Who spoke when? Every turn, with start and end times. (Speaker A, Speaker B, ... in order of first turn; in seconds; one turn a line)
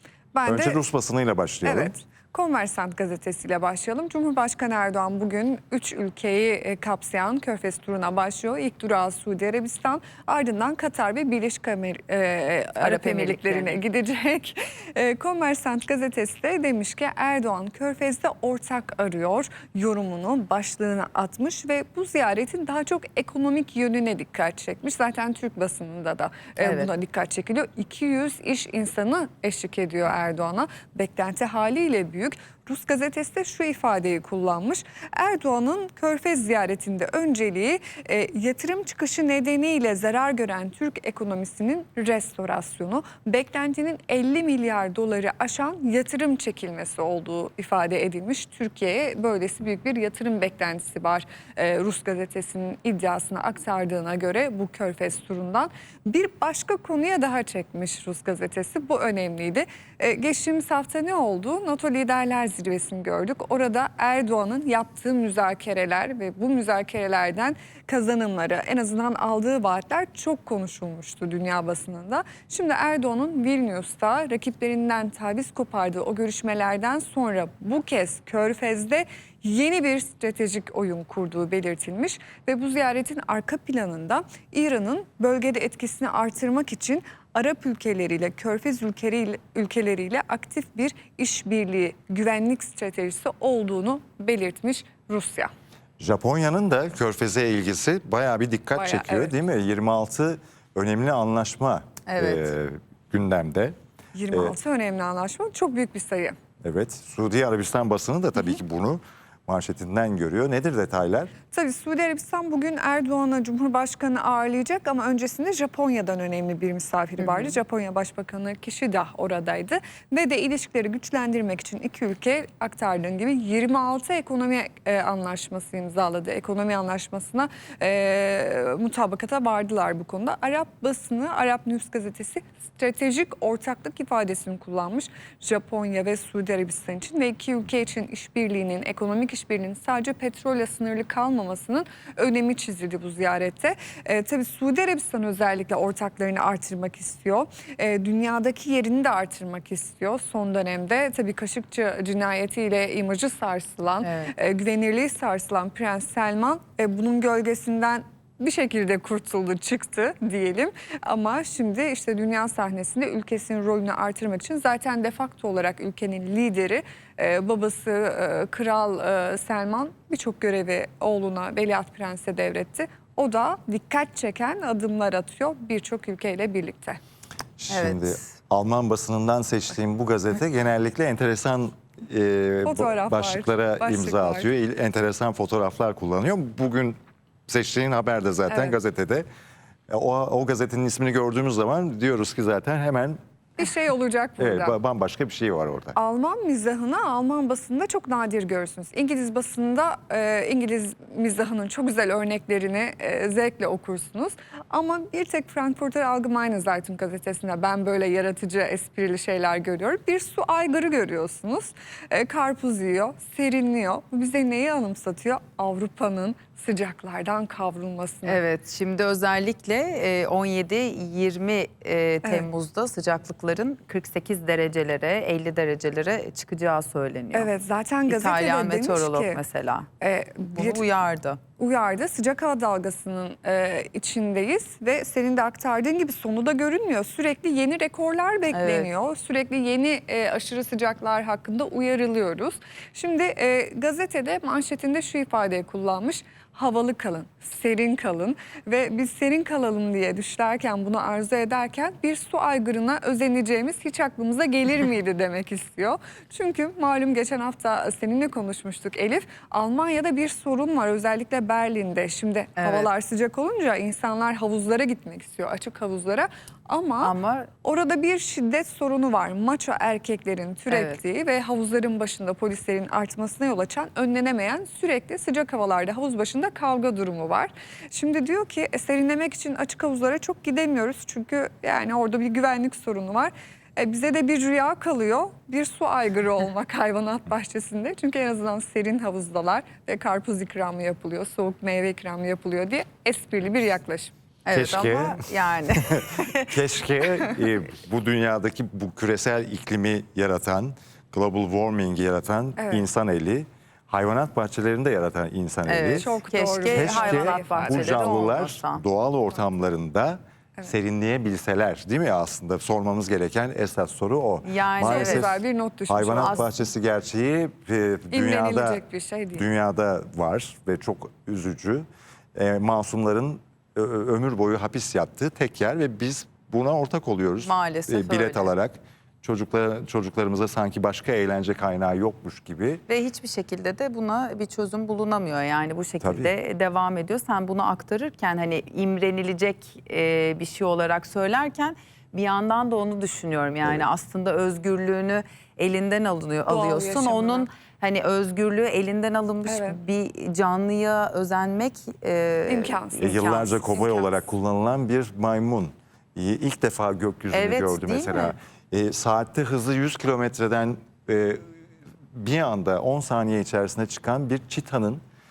Speaker A: 0.3-0.8
Speaker B: 0.5-1.9
Speaker A: 1.6-95.5
Speaker C: 12.8-13.8
Speaker C: 26.6-26.9
Speaker B: 96.0-103.7
Speaker A: 98.7-99.3
Speaker C: 102.1-102.5
Speaker A: 104.1-106.4
Speaker B: 106.6-111.3
Speaker A: 111.5-177.0
Speaker C: 117.2-117.5
Speaker C: 154.0-154.3
Speaker B: 177.6-189.2
Speaker C: 177.7-178.3
Speaker A: 182.7-184.5
Speaker A: 188.5-188.8
Speaker B: 189.9-193.2
Speaker A: 193.6-194.8
Speaker B: 194.4-195.9
Speaker A: 195.9-218.4
Speaker C: 218.2-227.5
Speaker A: 222.2-222.5
Speaker A: 227.3-229.4
Speaker C: 228.1-229.9
Speaker A: 230.0-230.8
Speaker C: 230.5-231.4
Speaker A: 231.6-294.1
Speaker C: 238.5-238.9
Speaker C: 262.6-262.9
Speaker C: 267.0-267.5
Speaker C: 270.7-271.0
Speaker C: 294.4-296.5
Speaker B: 294.5-306.1
Speaker A: 302.6-302.9
Speaker C: 305.6-308.8
Speaker A: 306.0-308.4
Speaker B: 306.7-318.8
Speaker C: 314.4-315.3
Speaker A: 314.8-316.4
Speaker C: 316.2-316.4
Speaker A: 318.1-319.5
Speaker B: 319.3-332.8
Speaker C: 327.4-328.5
Speaker C: 332.9-353.4
Speaker B: 336.0-336.3
Speaker A: 346.4-347.5
Speaker A: 349.4-349.8
Speaker A: 352.5-354.2
Speaker B: 353.0-361.4
Speaker C: 357.3-358.3
Speaker B: 362.1-365.0